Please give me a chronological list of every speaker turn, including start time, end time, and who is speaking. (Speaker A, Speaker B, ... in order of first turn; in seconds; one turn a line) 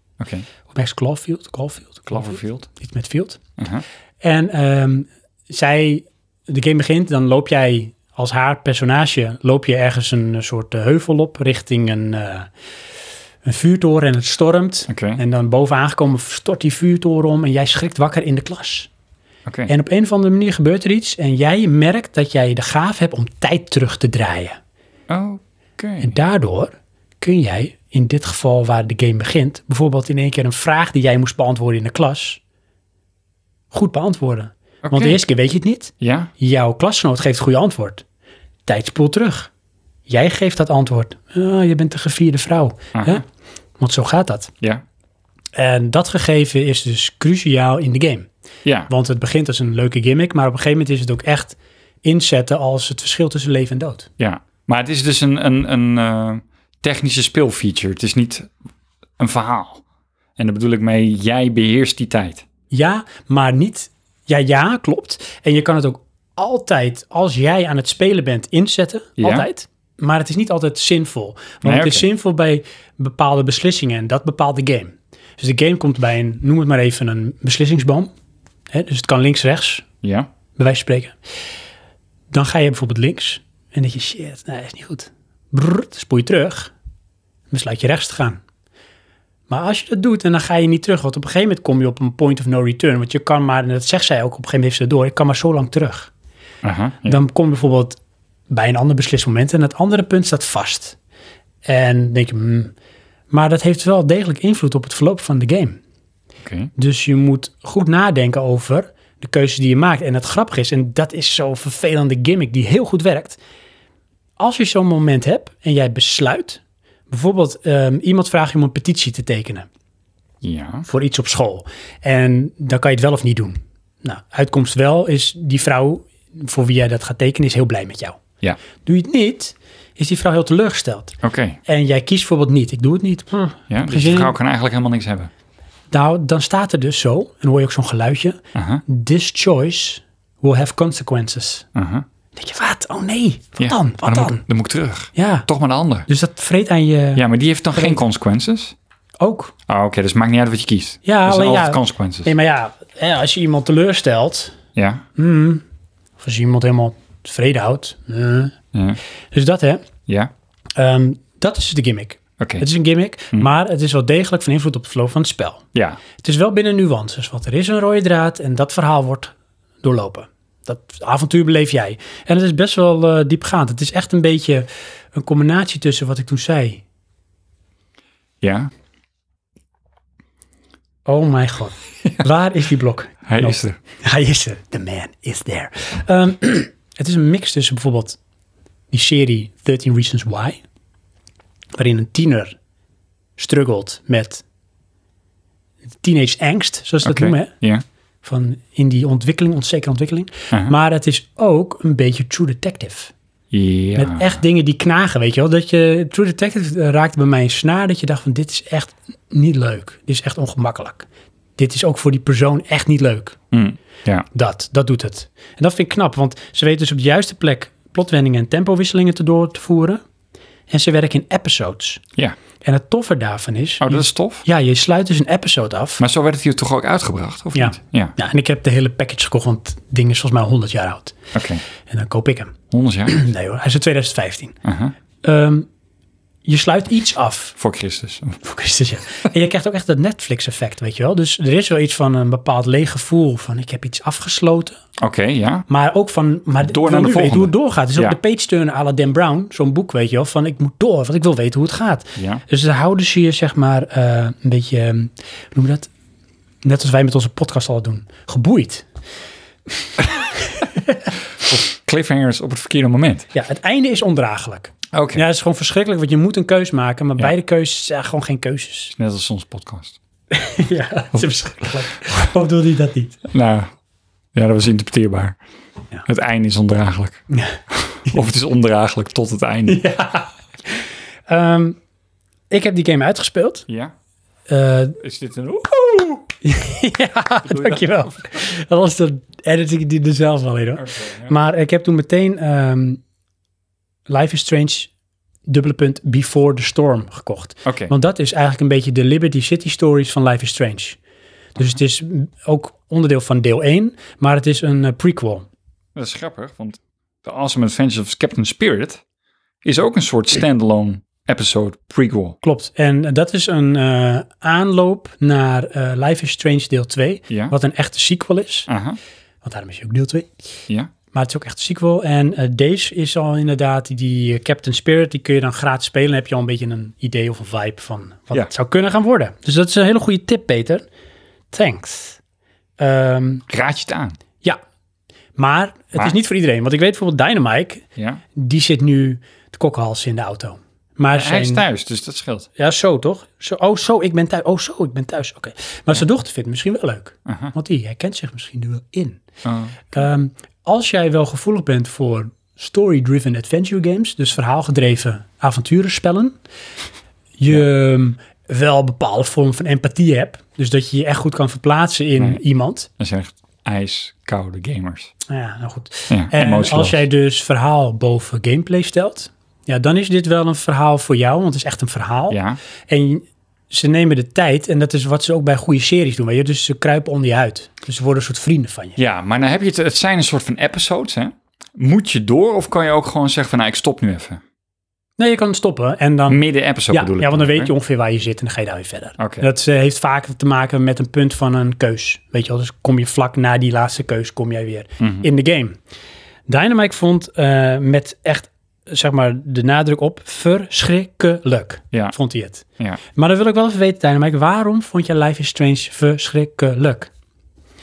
Speaker A: 0.2-0.5
Speaker B: 0.7-3.4
Speaker A: 2.1-2.7
Speaker A: 3.6-3.8
Speaker B: 4.2-12.5
Speaker B: 13.4-18.9
Speaker A: 14.9-15.2
Speaker A: 19.4-19.7
Speaker B: 19.7-24.6
Speaker A: 25.1-26.1
Speaker B: 26.0-32.4
Speaker B: 33.7-38.0
Speaker A: 34.8-35.2
Speaker A: 36.0-36.3
Speaker B: 38.6-39.5
Speaker B: 40.1-43.2
Speaker A: 42.9-43.2
Speaker B: 43.8-44.5
Speaker B: 45.5-48.3
Speaker A: 48.6-48.9
Speaker B: 48.9-54.1
Speaker A: 54.2-58.5
Speaker A: 59.2-59.8
Speaker A: 60.4-62.4
Speaker B: 62.7-78.1
Speaker A: 69.2-69.5
Speaker A: 71.6-72.1
Speaker B: 78.7-79.8
Speaker A: 80.0-80.3
Speaker B: 80.5-81.2
Speaker B: 82.3-86.7
Speaker B: 87.5-88.4
Speaker B: 89.5-96.1
Speaker A: 96.6-97.2
Speaker B: 97.0-98.0
Speaker B: 98.5-101.0
Speaker B: 101.6-102.7
Speaker B: 103.3-105.8
Speaker A: 106.4-106.7
Speaker B: 106.8-113.4
Speaker B: 114.4-119.7
Speaker A: 120.4-120.9
Speaker B: 120.9-128.2
Speaker B: 128.8-134.3
Speaker A: 131.2-131.6
Speaker A: 133.7-135.3
Speaker B: 135.9-141.7
Speaker A: 138.5-138.8
Speaker A: 141.7-142.1
Speaker B: 142.3-144.4
Speaker A: 143.6-146.1
Speaker B: 145.1-145.5
Speaker B: 146.1-147.2
Speaker A: 147.1-148.8
Speaker B: 147.7-148.0
Speaker B: 149.2-149.5
Speaker A: 149.7-152.3
Speaker B: 151.0-154.6
Speaker A: 154.8-155.1
Speaker B: 155.1-155.6
Speaker B: 156.2-158.5
Speaker A: 158.7-159.0
Speaker B: 159.3-159.9
Speaker A: 160.1-160.3
Speaker B: 160.8-165.7
Speaker A: 162.4-162.6
Speaker A: 165.7-166.0
Speaker B: 166.2-176.8
Speaker A: 178.4-178.7
Speaker B: 181.1-188.2
Speaker A: 183.3-183.8
Speaker B: 188.9-190.6
Speaker B: 191.7-192.5
Speaker B: 193.4-194.4
Speaker B: 196.0-197.5
Speaker A: 197.0-197.8
Speaker B: 198.2-203.1
Speaker A: 203.5-204.4
Speaker B: 203.9-213.4
Speaker A: 213.5-214.2
Speaker B: 214.3-220.0
Speaker B: 220.7-222.0
Speaker B: 222.6-226.0
Speaker A: 223.8-224.4
Speaker A: 226.0-228.1
Speaker B: 227.5-231.2
Speaker A: 231.3-231.6
Speaker B: 231.8-232.5
Speaker A: 232.7-233.2
Speaker B: 233.1-234.6
Speaker A: 234.6-234.9
Speaker B: 235.2-235.7
Speaker B: 236.4-237.6
Speaker A: 237.6-238.4
Speaker B: 238.4-244.8
Speaker A: 245.0-245.7
Speaker B: 245.7-255.9
Speaker A: 246.6-248.2
Speaker A: 252.2-252.4
Speaker B: 256.6-258.9
Speaker B: 260.0-261.1
Speaker A: 261.4-263.3
Speaker B: 263.3-268.9
Speaker A: 264.9-265.2
Speaker A: 268.9-270.0
Speaker B: 270.3-273.2
Speaker A: 273.3-273.7
Speaker A: 274.3-275.4
Speaker A: 276.1-279.8
Speaker B: 277.3-278.2
Speaker B: 279.7-281.8
Speaker B: 282.5-283.7
Speaker A: 283.7-283.9
Speaker B: 284.5-285.0
Speaker A: 285.0-286.2
Speaker B: 286.4-293.0
Speaker A: 287.4-288.4
Speaker A: 290.8-291.3
Speaker B: 294.1-294.9
Speaker B: 295.5-301.0
Speaker A: 297.6-297.9
Speaker B: 301.6-305.5
Speaker A: 305.9-309.0
Speaker A: 309.6-312.4
Speaker B: 312.4-318.7
Speaker A: 317.3-317.5
Speaker A: 318.7-319.0
Speaker B: 319.4-320.3
Speaker B: 321.1-330.8
Speaker B: 331.5-332.2
Speaker B: 332.8-333.4
Speaker A: 333.5-334.2
Speaker B: 335.4-341.6
Speaker A: 337.9-338.2
Speaker A: 341.1-342.5
Speaker B: 342.6-349.2
Speaker A: 347.2-347.5
Speaker A: 349.4-349.9
Speaker B: 349.9-356.4
Speaker B: 357.4-362.9
Speaker A: 363.0-365.1
Speaker B: 365.3-379.0
Speaker A: 366.1-367.0
Speaker A: 372.3-372.6
Speaker A: 379.0-384.4
Speaker B: 385.2-395.8
Speaker A: 386.3-387.7
Speaker A: 389.2-389.4
Speaker A: 395.0-395.3
Speaker B: 396.5-407.1